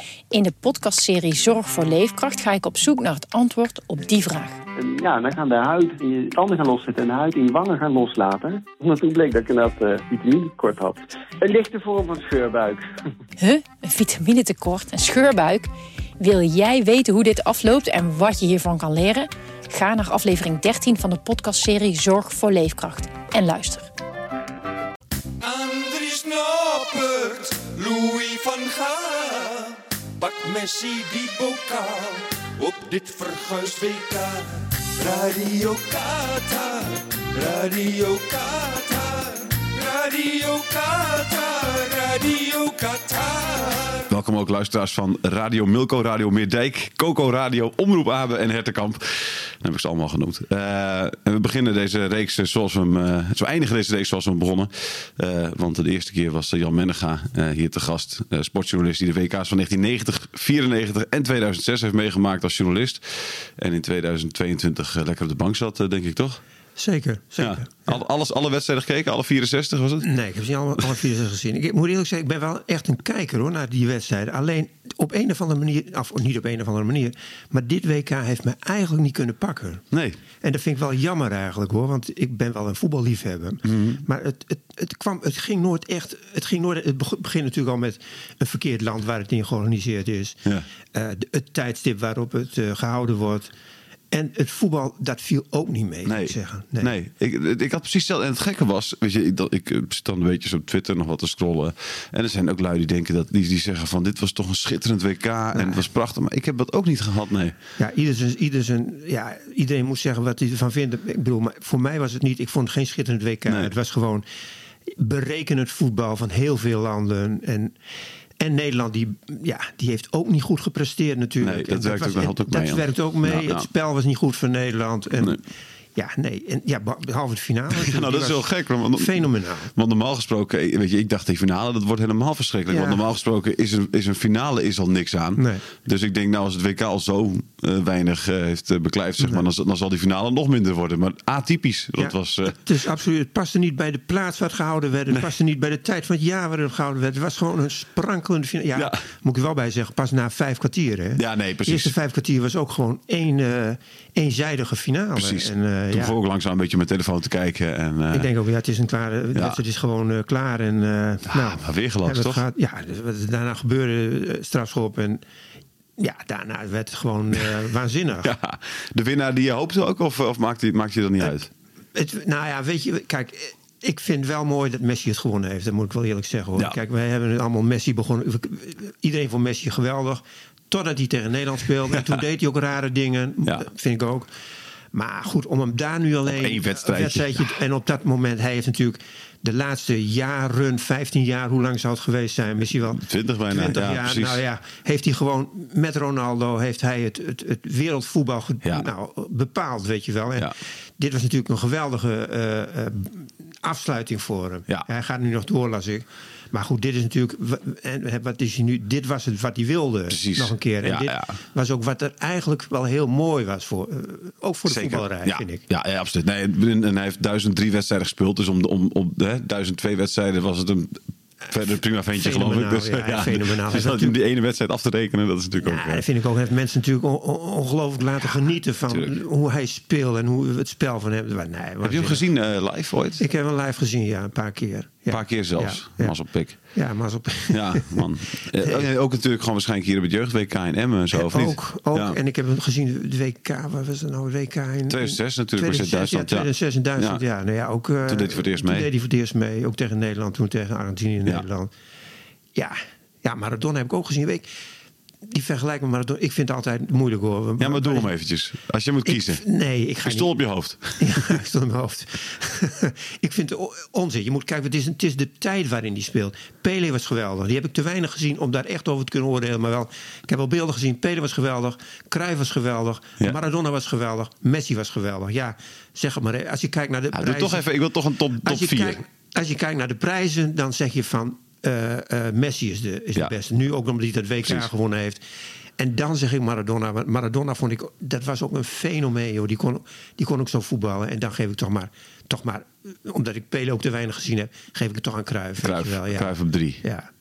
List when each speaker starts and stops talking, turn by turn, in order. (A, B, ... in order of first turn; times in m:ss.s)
0:00.3-0:04.6 A
0:04.8-0:12.6 B
0:13.4-0:23.9 A
0:25.4-0:44.0 C
0:44.0-1:06.4 D
1:06.8-1:08.0 E
1:07.4-1:10.1 D
1:10.0-1:19.8 E
1:19.9-1:20.2 D
1:20.4-1:30.4 E
1:23.6-1:24.0 D
1:30.9-1:33.5 E
1:34.1-1:36.9 E
1:36.0-1:47.5 D
1:45.5-1:45.8 E
1:47.8-1:54.2 E
1:53.5-1:53.7 D
1:54.9-1:57.8 E
1:58.4-2:05.4 E
2:01.4-2:03.7 D
2:05.9-2:09.7 E
2:07.7-2:22.6 D
2:12.7-2:13.0 E
2:15.4-2:15.6 E
2:22.0-2:36.2 E
2:28.7-2:29.0 D
2:31.2-2:31.9 D
2:35.2-2:38.3 D
2:38.1-2:45.2 E
2:39.3-2:39.6 D
2:41.2-2:42.4 D
2:46.0-2:48.3 E
2:48.2-2:51.5 D
2:51.9-3:04.3 E
3:04.9-3:35.6 E
3:06.2-3:07.4 D
3:12.9-3:14.4 D
3:30.1-3:31.3 D
3:34.7-3:46.0 D
3:42.1-3:44.2 E
3:45.6-3:52.2 E
3:48.9-3:49.2 D
3:51.8-3:53.2 D
3:53.2-3:58.9 E
3:55.1-3:56.5 D
3:57.5-4:02.2 D
4:01.1-4:11.7 E
4:04.9-4:07.2 D
4:08.0-4:08.9 D
4:12.5-4:14.5 E
4:15.2-4:18.1 E
4:17.6-4:19.4 D
4:19.0-4:20.4 E
4:20.0-4:21.4 D
4:21.0-4:37.6 E
4:37.1-4:39.0 D
4:38.4-4:45.2 E
4:44.4-4:44.7 D
4:45.8-4:57.1 E
4:55.6-4:56.8 D